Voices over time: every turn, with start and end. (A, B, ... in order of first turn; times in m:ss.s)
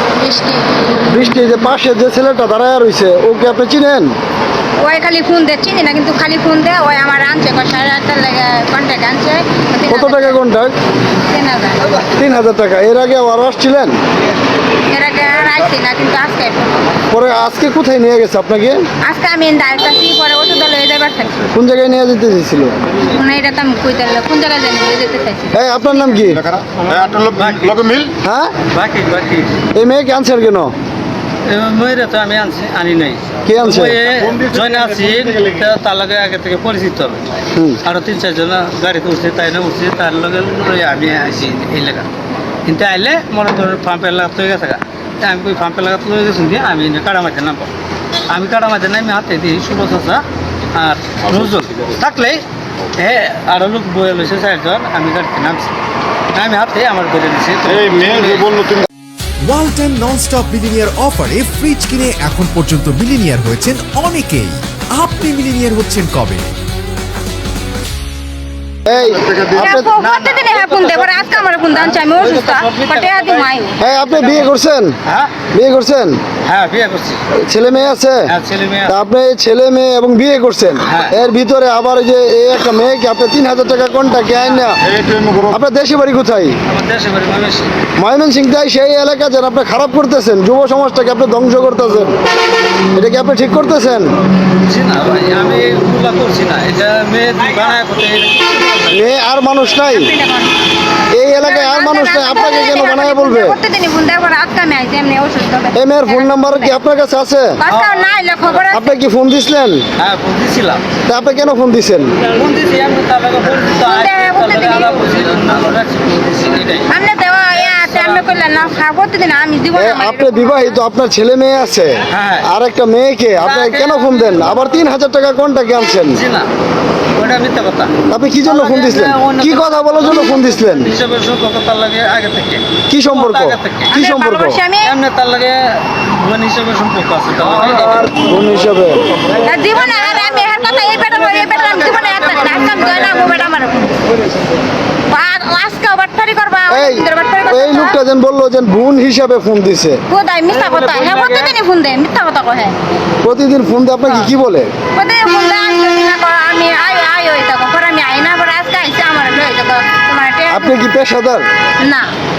0:00.2-0:00.6 A
0:01.1-0:04.1 B
0:04.8-0:10.4 A
0:09.9-0:10.7 B
0:11.2-0:12.0 A
0:12.0-0:14.0 B
0:14.9-0:16.8 A
0:17.1-0:18.8 B
0:19.0-0:21.5 A
0:21.5-0:22.7 B
0:23.0-0:25.6 A
0:25.5-0:26.5 B
0:26.5-0:28.1 C
0:26.8-0:28.0 D
0:28.2-0:28.5 B
0:28.7-0:29.6 D
0:29.7-0:30.7 B
0:31.5-0:37.2 D
0:33.5-0:34.0 B
0:37.6-0:37.8 B
0:37.8-0:42.1 D
0:42.7-0:47.7 D
0:48.3-0:50.2 D
0:50.7-0:52.4 D
0:53.0-0:55.8 D
0:56.4-0:58.6 D
0:58.2-0:58.8 C
0:59.4-1:06.6 E
1:08.9-1:09.9 B
1:09.5-1:13.8 A
1:09.6-1:13.5 D
1:13.8-1:15.0 B
1:14.0-1:14.5 D
1:15.1-1:15.3 D
1:15.5-1:16.2 B
1:16.4-1:17.2 D
1:17.4-1:18.3 B
1:18.3-1:19.0 D
1:18.9-1:26.6 B
1:20.8-1:21.2 D
1:24.9-1:25.5 C
1:26.7-1:27.7 D
1:28.0-1:32.2 B
1:32.9-1:34.1 B
1:34.6-1:39.0 D
1:38.9-1:40.1 B
1:39.9-1:40.5 A
1:41.1-1:43.6 B
1:41.4-1:46.7 A
1:45.8-1:47.6 B
1:47.6-1:49.0 A
1:47.7-1:48.1 D
1:48.7-1:49.8 B
1:50.0-1:50.8 D
1:51.1-1:52.2 B
1:52.2-1:56.9 D
1:53.8-1:55.1 A
1:56.9-2:00.8 A
1:57.7-1:58.2 D
1:59.8-2:06.2 B
2:02.1-2:02.5 D
2:03.4-2:04.6 D
2:06.1-2:06.5 D
2:07.2-2:13.9 D
2:08.1-2:10.9 B
2:12.9-2:14.6 B
2:13.9-2:14.9 A
2:14.8-2:18.2 D
2:18.2-2:19.1 B
2:19.4-2:24.1 A
2:21.2-2:23.0 D
2:25.1-2:28.0 A
2:26.7-2:30.0 B
2:30.1-2:32.8 A
2:30.6-2:31.5 D
2:33.2-2:34.7 B
2:34.9-2:40.8 A
2:40.5-2:41.5 B
2:41.8-2:42.1 A